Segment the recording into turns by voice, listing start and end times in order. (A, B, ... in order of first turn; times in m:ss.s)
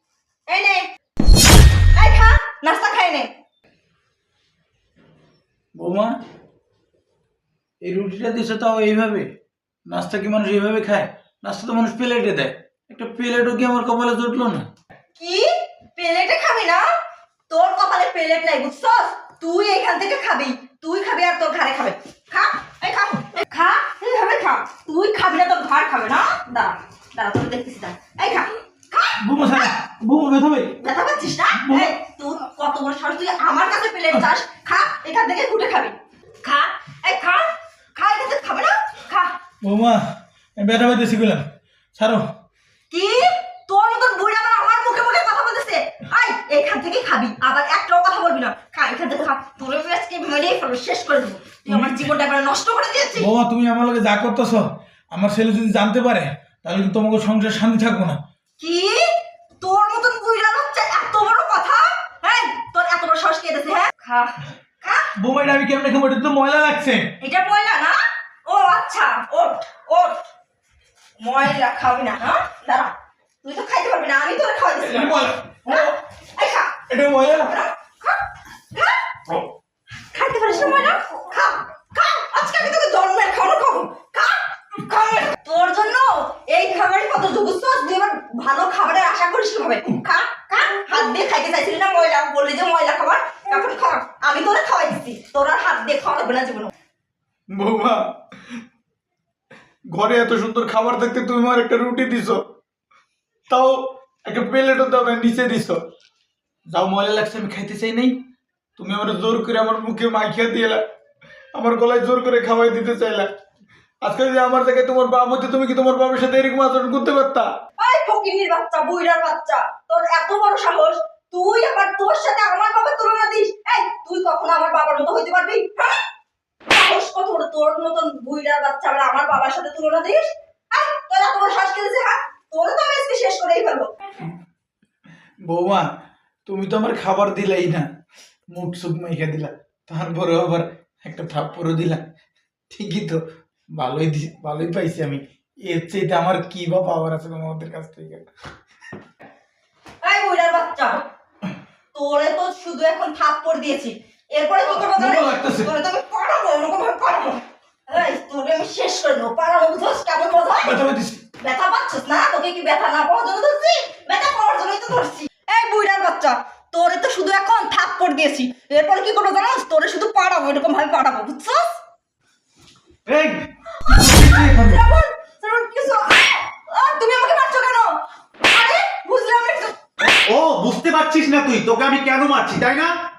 0:00.5-0:00.9 A
0:01.9-0:03.3 A
0:05.7-0:06.1 B
0:07.8-0:09.3 B
0:09.9-0:14.6 B
0:15.2-0:16.8 A
0:17.5-0:29.7 A
0:29.2-0:30.7 B
0:30.8-0:39.3 A
0:31.6-0:31.9 B
0:39.6-0:40.0 B
0:40.6-0:41.4 B
0:42.0-0:42.2 B
0:42.9-0:53.3 A
0:51.7-0:51.9 B
0:53.2-0:58.2 B
0:58.6-1:05.1 A
1:05.2-1:07.1 B
1:07.2-1:10.2 A
1:11.2-1:16.8 A
1:14.9-1:16.0 B
1:16.9-1:17.5 B
1:17.4-1:18.2 A
1:18.7-1:19.0 A
1:20.1-1:36.7 A
1:37.5-1:38.0 B
1:39.9-1:42.4 B
1:43.5-1:45.8 B
1:46.7-1:48.2 B
1:48.8-1:50.8 B
1:51.5-1:53.3 B
1:54.0-1:57.5 B
1:57.8-2:06.0 A
2:06.7-2:13.9 A
2:15.4-2:15.8 B
2:16.4-2:17.8 B
2:18.5-2:22.0 B
2:22.7-2:23.2 B
2:23.7-2:28.2 B
2:30.0-2:31.0 A
2:31.9-2:40.7 A
2:34.7-2:35.7 B
2:40.6-2:41.2 B
2:41.4-2:51.8 A
2:53.0-2:54.8 C
2:53.8-2:57.9 A
2:58.4-2:59.7 A
3:00.2-3:02.9 C